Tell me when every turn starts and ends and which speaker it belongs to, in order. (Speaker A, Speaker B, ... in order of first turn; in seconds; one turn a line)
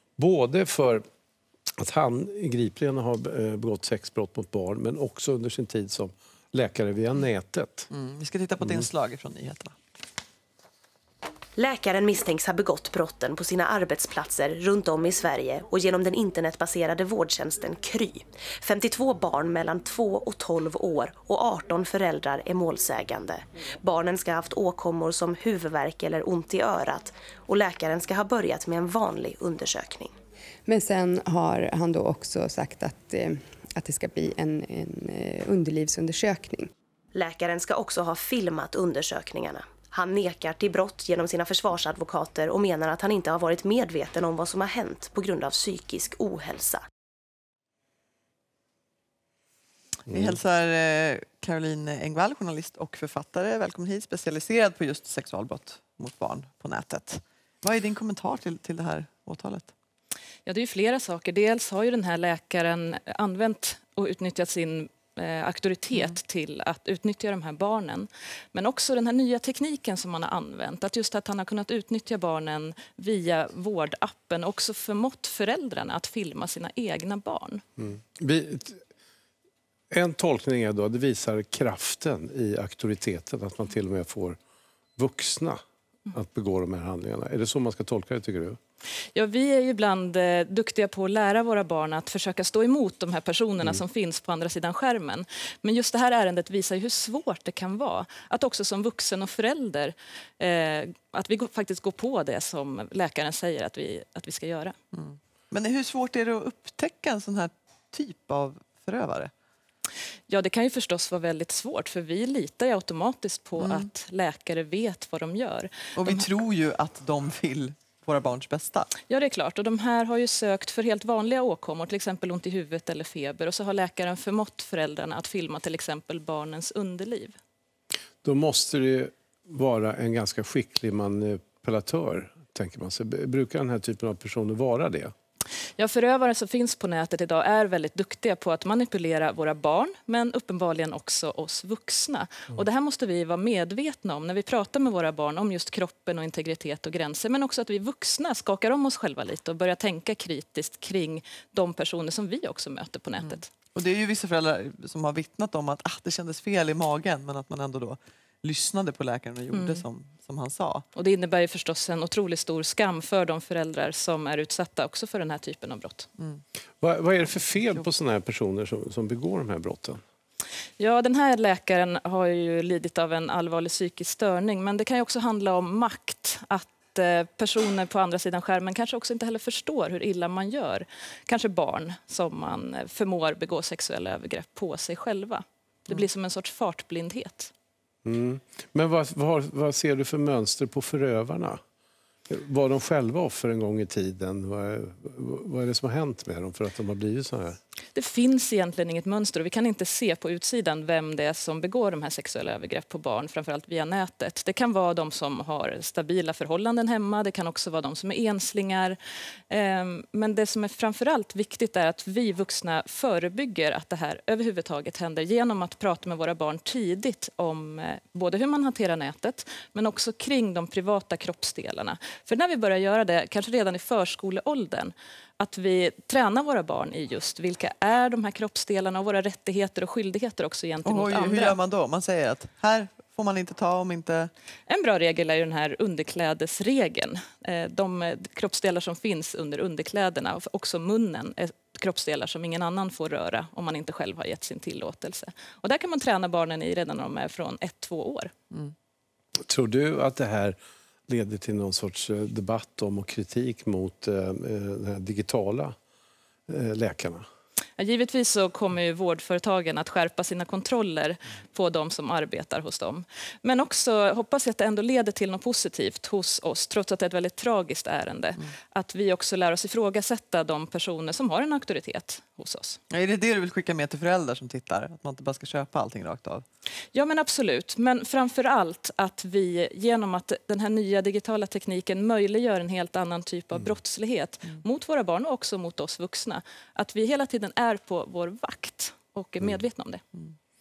Speaker A: 0.2-1.0
Speaker A: 1.8-7.9
Speaker B: 7.9-9.8
Speaker C: 11.6-30.1
Speaker D: 30.7-36.7
Speaker C: 37.1-46.8
Speaker B: 50.1-59.7
Speaker E: 60.5-77.6
Speaker A: 77.8-78.8
Speaker A: 79.9-84.4
Speaker A: 85.0-85.6
Speaker A: 86.1-88.6
Speaker E: 89.1-104.8
Speaker B: 104.9-109.3
Speaker E: 110.3-116.2
Speaker B: 113.6-113.9
Speaker B: 116.0-119.0
Speaker E: 119.1-127.3
Speaker A: 128.2-135.1
Speaker E: 135.8-153.5
Speaker B: 153.2-160.8
Speaker E: 159.5-159.8
Speaker E: 160.9-166.1
Speaker A: 166.8-170.0
Speaker E: 170.8-187.5
Speaker A: 188.1-191.6
Speaker A: 192.3-197.6
Speaker E: 197.9-209.0
Speaker E: 209.5-231.6
Speaker B: 230.8-234.3
Speaker E: 234.7-248.3
Speaker A: 249.5-250.6
Speaker A: 251.1-255.8
Speaker A: 256.5-257.2
Speaker E: 257.8-272.8
Speaker B: 272.9-276.4
Speaker E: 276.9-290.0